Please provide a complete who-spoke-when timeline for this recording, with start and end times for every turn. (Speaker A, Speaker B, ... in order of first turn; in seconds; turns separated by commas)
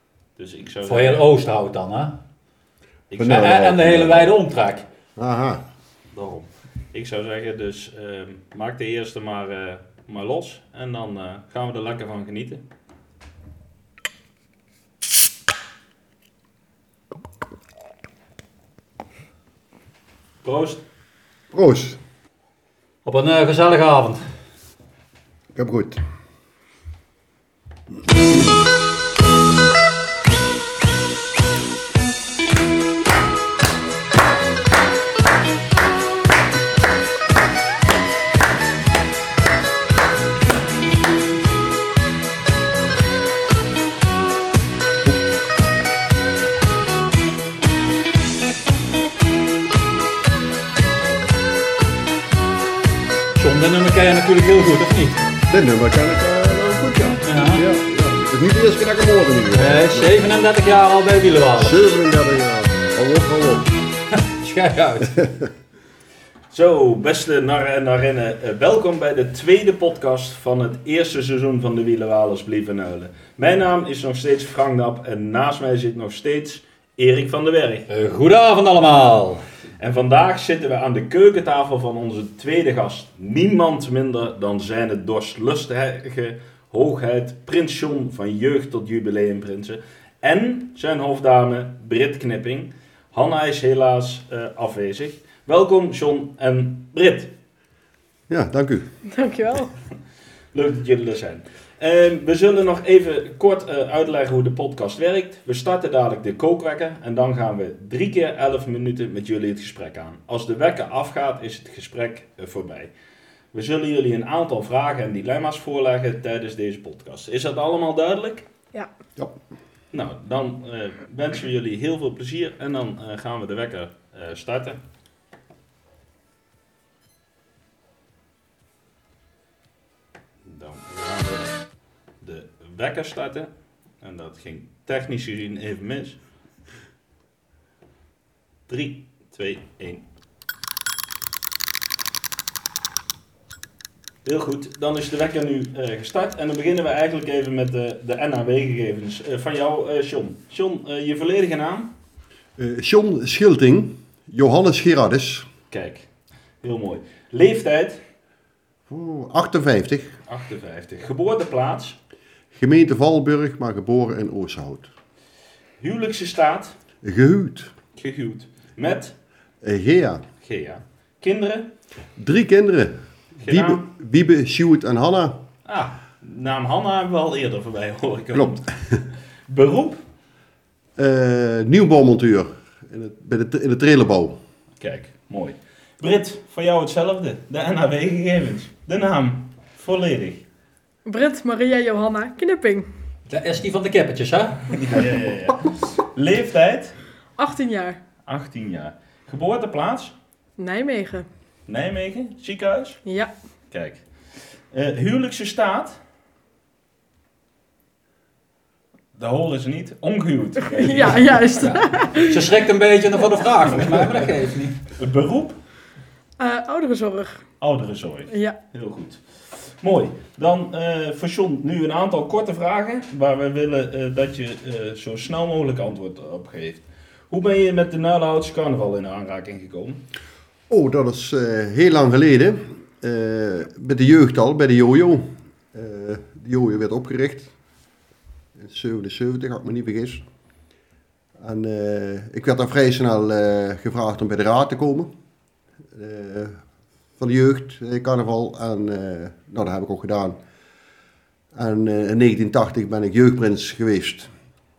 Speaker A: 0.3-1.2, Speaker B: 0.8-2.2, Speaker C: 3.2-4.3, Speaker B: 3.2-4.8, Speaker C: 5.2-5.6, Speaker A: 6.1-12.6, Speaker A: 20.4-20.8, Speaker C: 21.5-22.0, Speaker B: 23.0-24.2, Speaker C: 25.5-26.0, Speaker B: 53.4-55.2, Speaker C: 55.5-60.2, Speaker B: 57.2-57.6, Speaker B: 59.5-61.9, Speaker C: 61.6-63.7, Speaker B: 64.1-65.2, Speaker C: 65.2-65.5, Speaker A: 66.5-77.9, Speaker B: 77.9-79.4, Speaker A: 79.8-97.3, Speaker C: 98.3-98.9, Speaker D: 99.1-99.7, Speaker A: 100.5-112.9, Speaker A: 113.5-118.5, Speaker A: 119.9-124.8, Speaker A: 130.4-131.6, Speaker A: 132.2-136.2, Speaker A: 138.7-140.0, Speaker A: 144.2-151.9, Speaker C: 152.6-155.5, Speaker A: 155.7-156.1, Speaker A: 156.6-158.0, Speaker C: 158.9-160.2, Speaker A: 160.3-162.0, Speaker C: 162.5-164.9, Speaker A: 165.8-166.8, Speaker C: 167.0-167.7, Speaker A: 168.0-169.1, Speaker C: 169.6-170.2, Speaker A: 170.4-171.7, Speaker C: 172.2-175.4, Speaker A: 173.4-173.9, Speaker A: 175.7-178.7, Speaker C: 178.3-179.0, Speaker A: 179.5-180.0, Speaker C: 181.0-184.4, Speaker A: 184.8-190.4, Speaker D: 191.1-192.9, Speaker B: 193.3-194.8, Speaker A: 194.7-196.9, Speaker D: 197.4-198.0, Speaker A: 198.3-200.2, Speaker D: 200.6-201.3, Speaker A: 201.7-203.0, Speaker D: 203.1-203.3, Speaker A: 203.7-204.0, Speaker A: 204.7-206.0, Speaker A: 209.1-211.7, Speaker D: 210.6-212.4, Speaker B: 211.6-214.8, Speaker A: 214.9-215.6, Speaker D: 216.4-217.4, Speaker A: 217.6-230.0, Speaker D: 218.3-218.6, Speaker C: 230.7-237.5, Speaker C: 238.6-240.2, Speaker C: 241.4-245.1, Speaker C: 245.9-246.6, Speaker C: 247.2-250.4, Speaker C: 251.5-254.3